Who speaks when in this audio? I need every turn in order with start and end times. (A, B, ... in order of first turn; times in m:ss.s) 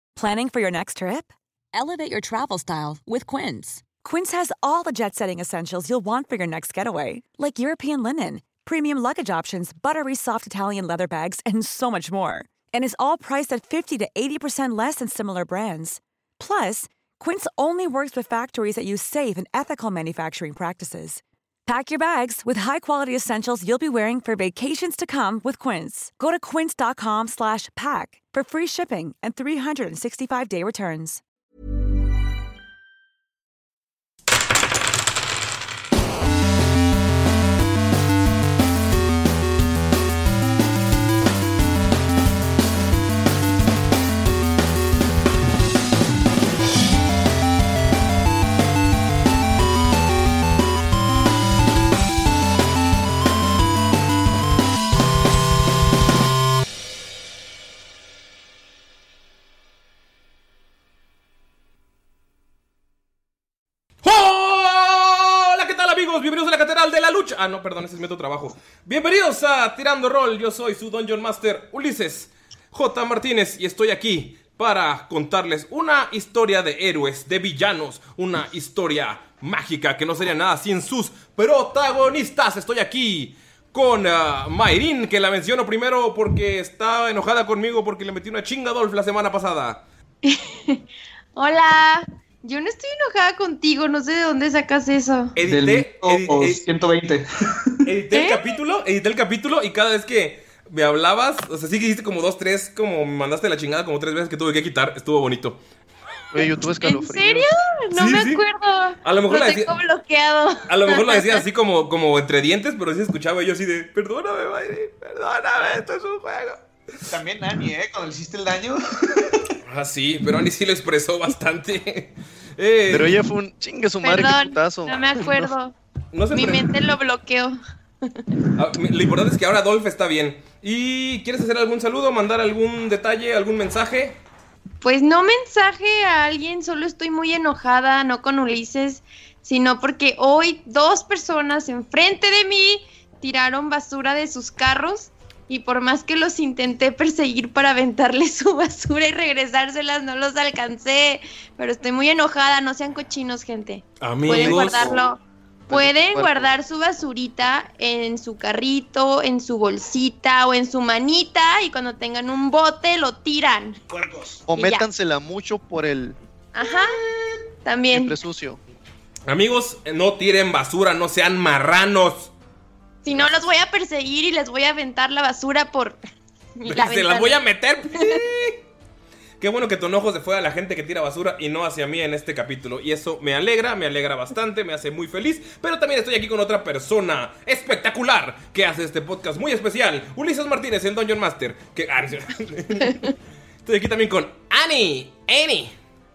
0:00.2-0:31.2 A
1:04.0-1:29.8 B
1:30.2-1:30.8 C
1:31.4-1:35.3 C
1:35.3-1:36.6 B
1:35.4-1:37.8 D
1:37.9-1:45.6 B
1:38.1-1:38.4 C
1:46.3-1:47.5 E
1:46.3-1:51.4 C
1:47.9-1:48.4 B
1:49.0-1:49.7 B
1:50.7-1:56.6 B
1:57.0-1:59.4 D
1:59.6-2:03.2 B
2:02.9-2:05.5 E
2:04.0-2:05.7 C
2:06.1-2:06.7 B
2:06.3-2:07.6 C
2:08.6-2:14.2 B
2:14.8-2:43.8 C
2:34.0-2:35.0 B
2:34.3-2:35.0 E
2:35.7-2:36.5 E
2:43.9-2:44.4 D
2:44.5-2:46.2 E
2:44.5-2:44.9 C
2:46.5-2:47.0 C
2:47.6-2:48.2 C
2:47.9-2:48.6 E
2:49.3-2:52.3 B
2:53.0-2:56.0 C
2:56.6-2:57.4 C
2:56.6-2:58.6 B
2:57.9-2:58.2 C
2:59.4-3:13.1 B
3:13.6-3:15.7 B